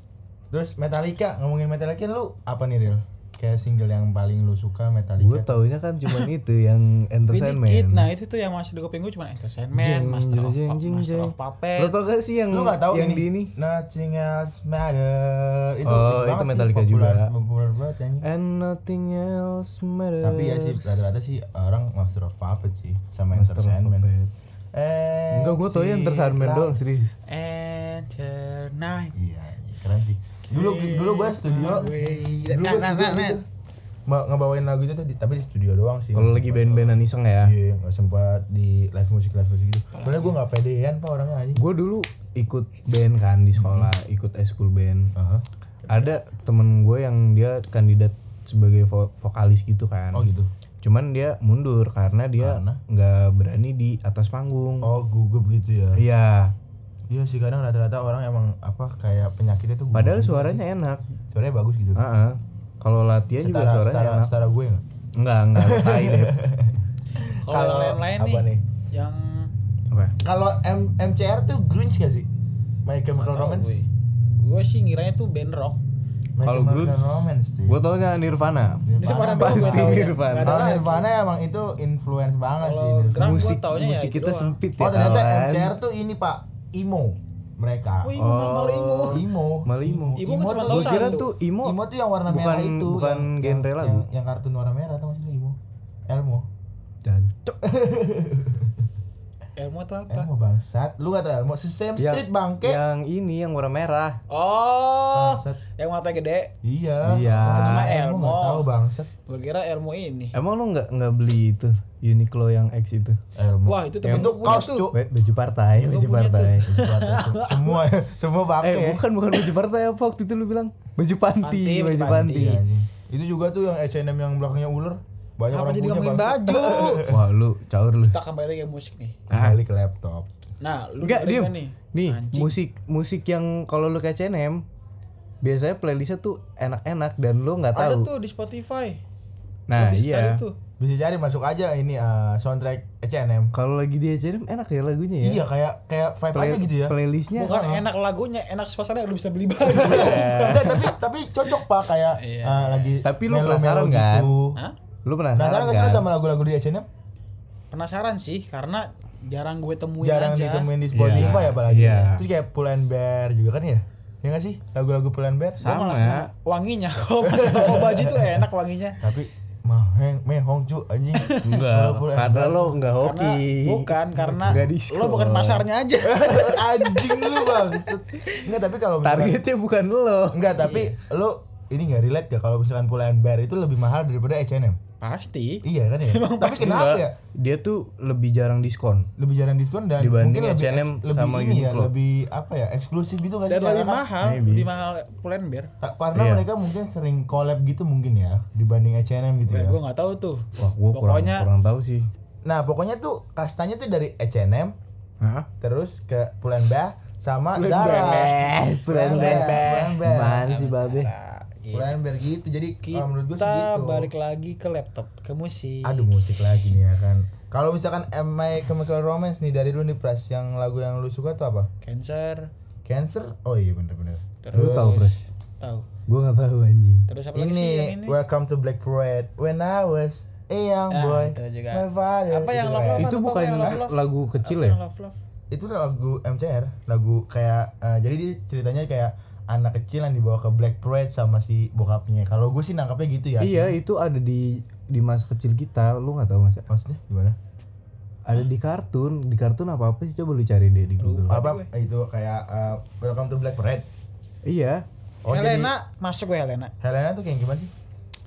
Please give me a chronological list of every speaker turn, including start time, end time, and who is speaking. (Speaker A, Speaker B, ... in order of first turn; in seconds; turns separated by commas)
Speaker A: 0.5-5.6, Speaker B: 5.2-8.1, Speaker C: 7.3-11.9, Speaker B: 9.7-13.5, Speaker A: 12.5-18.2, Speaker B: 15.8-17.3, Speaker B: 18.2-21.0, Speaker A: 20.2-24.1, Speaker B: 23.3-24.4, Speaker A: 24.7-26.8, Speaker B: 25.3-27.1, Speaker C: 27.3-29.1, Speaker A: 29.1-33.4, Speaker C: 30.5-33.4, Speaker A: 34.1-41.6, Speaker B: 36.1-37.5, Speaker C: 39.9-40.4, Speaker B: 41.5-45.1, Speaker A: 43.6-43.9, Speaker A: 45.1-45.4, Speaker B: 45.9-50.3, Speaker A: 50.1-50.5, Speaker B: 50.8-54.9, Speaker A: 52.4-52.8, Speaker A: 54.8-56.0, Speaker B: 55.9-56.5, Speaker A: 57.1-60.6, Speaker B: 59.9-61.0, Speaker A: 61.3-62.0, Speaker B: 62.0-64.3, Speaker A: 63.4-64.8, Speaker B: 65.2-66.3, Speaker A: 65.5-68.6, Speaker C: 67.5-69.5, Speaker B: 69.9-70.2, Speaker A: 70.2-72.3, Speaker A: 72.8-73.8, Speaker C: 73.2-75.8, Speaker A: 76.4-77.8, Speaker B: 76.4-77.2, Speaker B: 77.7-80.7, Speaker A: 78.8-83.5, Speaker C: 79.0-81.1, Speaker C: 82.6-84.6, Speaker B: 83.2-85.7, Speaker A: 84.8-88.2, Speaker C: 88.0-89.2, Speaker B: 88.2-94.0, Speaker A: 89.1-95.6, Speaker C: 90.2-91.3, Speaker A: 96.1-96.5, Speaker B: 97.0-97.5, Speaker A: 97.6-98.8, Speaker C: 99.6-100.3, Speaker A: 100.1-102.8, Speaker B: 102.0-104.2, Speaker C: 104.3-106.5, Speaker A: 105.1-105.6, Speaker A: 106.6-109.1, Speaker B: 107.0-107.9, Speaker C: 107.4-108.7, Speaker C: 109.2-110.3, Speaker B: 110.3-113.2, Speaker A: 113.3-115.0, Speaker C: 113.7-114.9, Speaker B: 114.0-116.7, Speaker C: 115.8-117.8, Speaker A: 116.7-119.0, Speaker B: 118.6-122.6, Speaker C: 121.4-122.5, Speaker A: 122.3-127.2, Speaker C: 125.5-127.1, Speaker B: 127.0-128.2, Speaker C: 128.1-129.2, Speaker B: 129.3-129.6, Speaker A: 129.3-130.3, Speaker C: 130.6-132.6, Speaker B: 131.0-134.6, Speaker B: 135.4-138.1, Speaker C: 137.7-139.0, Speaker B: 139.7-140.4, Speaker C: 139.7-140.6, Speaker A: 140.8-143.5, Speaker B: 143.5-145.4, Speaker A: 145.2-147.9, Speaker B: 146.3-147.5, Speaker C: 147.4-150.9, Speaker A: 149.7-154.6, Speaker B: 149.7-150.9, Speaker C: 152.2-153.0, Speaker B: 153.0-154.3, Speaker B: 155.0-156.1, Speaker A: 155.3-156.9, Speaker C: 157.7-161.6, Speaker A: 160.0-165.6, Speaker B: 160.9-162.2, Speaker B: 165.6-166.3, Speaker C: 165.6-169.0, Speaker A: 167.2-168.4, Speaker A: 169.0-172.8, Speaker C: 171.2-171.5, Speaker B: 171.4-175.7, Speaker C: 173.0-178.5, Speaker A: 174.1-174.7, Speaker A: 176.0-179.4, Speaker B: 179.0-180.6, Speaker A: 180.3-184.8, Speaker C: 180.6-180.9, Speaker C: 185.0-186.8, Speaker A: 185.6-187.2, Speaker B: 186.5-189.1, Speaker A: 189.2-194.1, Speaker B: 190.0-191.9, Speaker C: 193.5-195.7, Speaker B: 194.2-194.7, Speaker A: 195.8-199.8, Speaker B: 196.1-196.5, Speaker C: 199.5-201.5, Speaker B: 200.6-202.1, Speaker A: 202.4-204.8, Speaker B: 205.2-205.5, Speaker A: 205.6-210.5, Speaker B: 207.6-211.1, Speaker C: 207.6-211.9, Speaker A: 211.7-214.1, Speaker C: 212.8-216.1, Speaker A: 215.8-221.7, Speaker C: 221.8-222.5, Speaker A: 222.8-225.1, Speaker C: 224.4-225.9, Speaker B: 224.5-225.2, Speaker B: 226.1-227.1, Speaker C: 227.1-228.2, Speaker A: 227.3-233.1, Speaker C: 230.9-235.2, Speaker B: 233.0-234.8, Speaker A: 235.5-243.8, Speaker B: 243.4-246.7, Speaker A: 246.7-247.4, Speaker B: 248.2-251.4, Speaker C: 251.0-251.7, Speaker A: 251.3-253.9, Speaker B: 254.4-254.8, Speaker A: 255.2-255.7, Speaker C: 255.3-256.7, Speaker A: 256.8-257.7